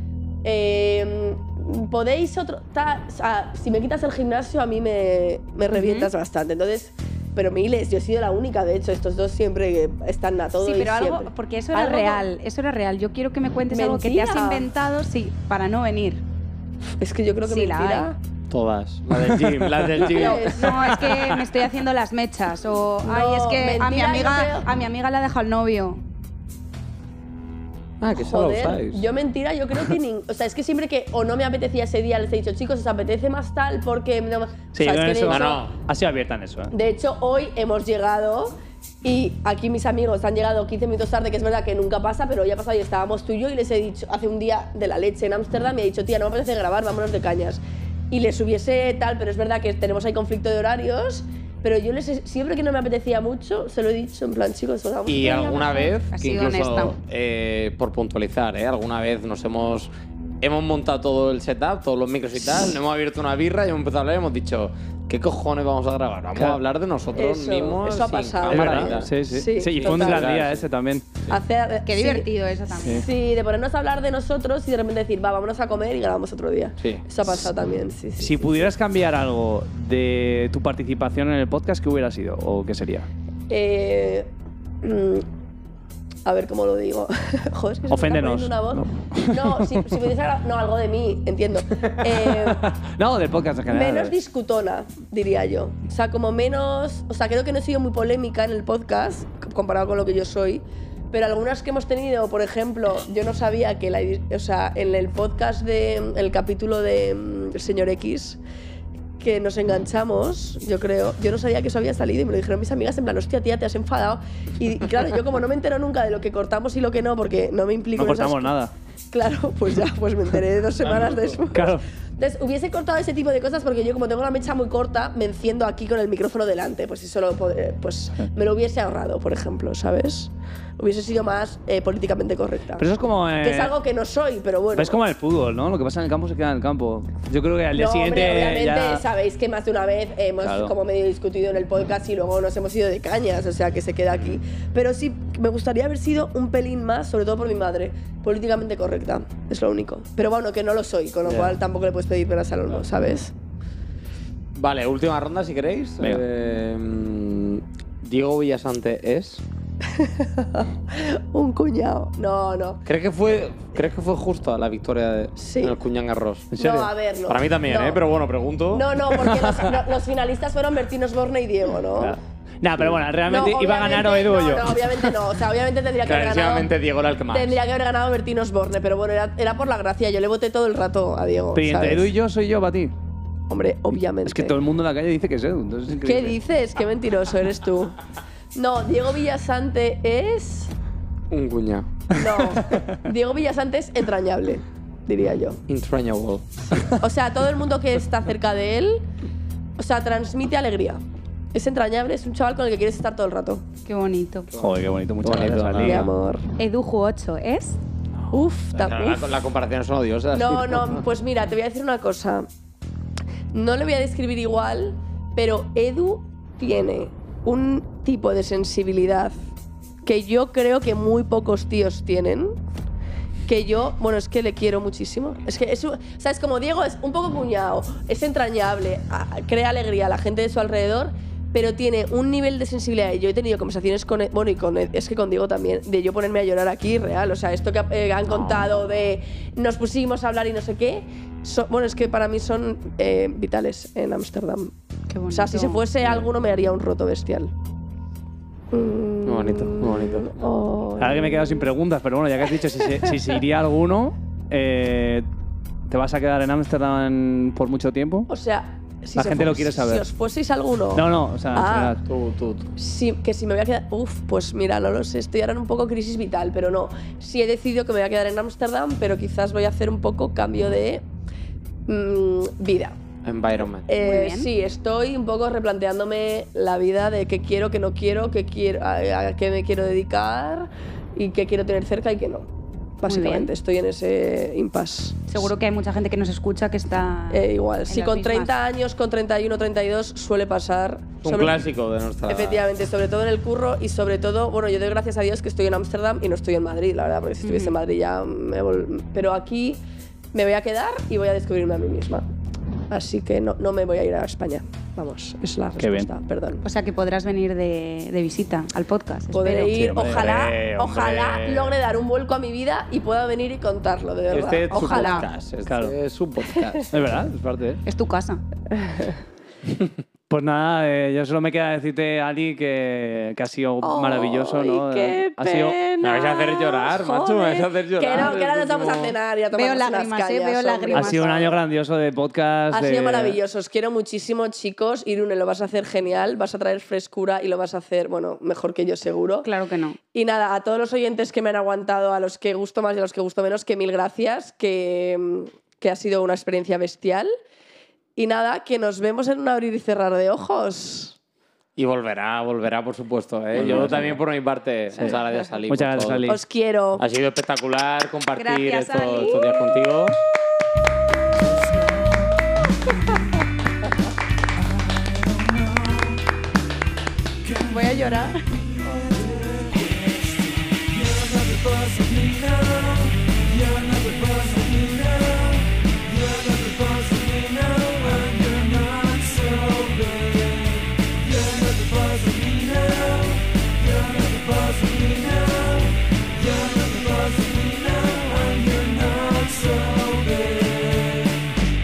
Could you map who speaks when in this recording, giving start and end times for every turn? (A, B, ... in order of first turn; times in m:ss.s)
0:00.4-0:12.2 A
0:05.7-0:06.1 B
0:10.6-0:16.2 B
0:13.7-0:14.7 A
0:17.0-0:18.2 A
0:17.4-0:18.1 B
0:18.5-0:20.7 C
0:19.3-0:20.1 D
0:20.0-0:21.0 A
0:20.1-0:26.0 B
0:20.7-0:21.4 D
0:23.0-0:24.7 A
0:28.0-0:29.0 C
0:28.1-0:35.6 A
0:34.7-0:36.7 D
0:35.2-0:35.8 C
0:36.7-0:47.6 A
0:48.1-0:55.9 A
0:55.1-0:59.9 C
0:55.9-0:57.0 B
1:00.4-1:09.1 C
1:07.2-1:10.3 A
1:08.5-1:11.1 D
1:09.7-1:10.6 C
1:11.3-1:12.3 A
1:11.9-1:13.1 B
1:12.8-1:18.7 A
1:18.2-1:23.1 D
1:23.5-1:24.3 A
1:24.8-1:25.2 A
1:26.2-1:32.7 A
1:27.9-1:30.0 D
1:32.0-1:34.2 D
1:33.7-1:48.4 A
1:49.2-1:58.6 A
1:58.0-1:58.7 D
1:59.1-2:12.8 A
2:01.4-2:01.8 D
2:12.8-2:13.7 D
2:13.4-2:15.0 A
2:14.7-2:19.0 D
2:17.7-2:33.3 A
2:20.4-2:20.7 D
2:31.3-2:31.6 D
2:34.6-2:39.4 C
2:39.9-2:42.8 A
2:42.9-2:46.5 C
2:45.4-2:45.8 A
2:46.5-2:46.9 D
2:46.6-2:48.0 A
2:47.2-2:49.0 C
2:48.7-2:52.2 A
2:49.1-2:49.8 D
2:52.0-2:55.2 D
2:53.3-2:56.7 A
2:56.0-2:57.6 C
2:57.3-3:02.1 A
3:01.5-3:02.9 D
3:03.5-3:04.6 A
3:03.9-3:06.4 D
3:06.0-3:08.0 A
3:08.5-3:10.7 A
3:11.3-3:11.9 C
3:12.2-3:12.8 D
3:12.2-3:15.6 A
3:15.7-3:16.5 C
3:16.9-3:19.0 A
3:19.8-3:21.0 A
3:21.5-3:23.6 A
3:23.9-3:24.5 B
3:24.6-3:26.1 D
3:25.2-3:26.1 C
3:25.8-3:26.4 A
3:26.6-3:27.8 B
3:28.2-3:31.0 C
3:28.3-3:29.3 A
3:30.3-3:32.5 A
3:33.5-3:39.4 A
3:40.0-3:42.6 A
3:43.5-4:04.7 A
3:58.3-3:58.8 C
4:05.1-4:05.8 B
4:05.3-4:07.5 A
4:06.0-4:06.3 C
4:08.7-4:11.7 A
4:09.2-4:10.5 C
4:11.0-4:15.3 D
4:12.8-4:13.1 A
4:15.9-4:18.3 D
4:18.3-4:22.0 A
4:19.2-4:20.0 D
4:20.9-4:22.0 D
4:22.0-4:22.7 C
4:22.8-4:31.0 A
4:31.9-4:33.0 A
4:33.2-4:33.9 C
4:33.9-4:42.5 A
4:34.0-4:34.5 B
4:43.0-4:45.5 A
4:43.0-4:43.5 B
4:45.3-4:48.5 B
4:47.3-4:51.6 A
4:51.2-4:52.6 C
4:52.3-4:59.8 A
4:57.4-4:57.8 B
5:00.3-5:02.2 A
5:02.9-5:06.6 A
5:05.8-5:06.1 D
5:06.6-5:10.0 B
5:09.3-5:15.3 A
5:09.7-5:10.3 D
5:10.0-5:11.8 C
5:14.3-5:16.9 C
5:14.7-5:15.3 B
5:15.7-5:16.0 D
5:16.6-5:16.9 A
5:16.9-5:17.8 D
5:17.9-5:18.4 B
5:18.7-5:19.2 A
5:20.3-5:25.8 D
5:23.8-5:31.6 A
5:26.0-5:29.2 C
5:29.5-5:31.5 B
5:30.9-5:33.4 D
5:32.7-5:39.5 A
5:39.4-5:40.0 B
5:40.1-5:47.3 A
5:48.2-5:51.2 A
5:51.8-5:56.3 C
5:53.6-5:54.2 D
5:55.7-5:56.4 D
5:56.3-5:57.0 A
5:57.0-6:00.2 C
5:58.4-5:59.7 B
6:05.0-6:06.1 D
6:07.6-6:08.4 B
6:08.9-6:31.1 D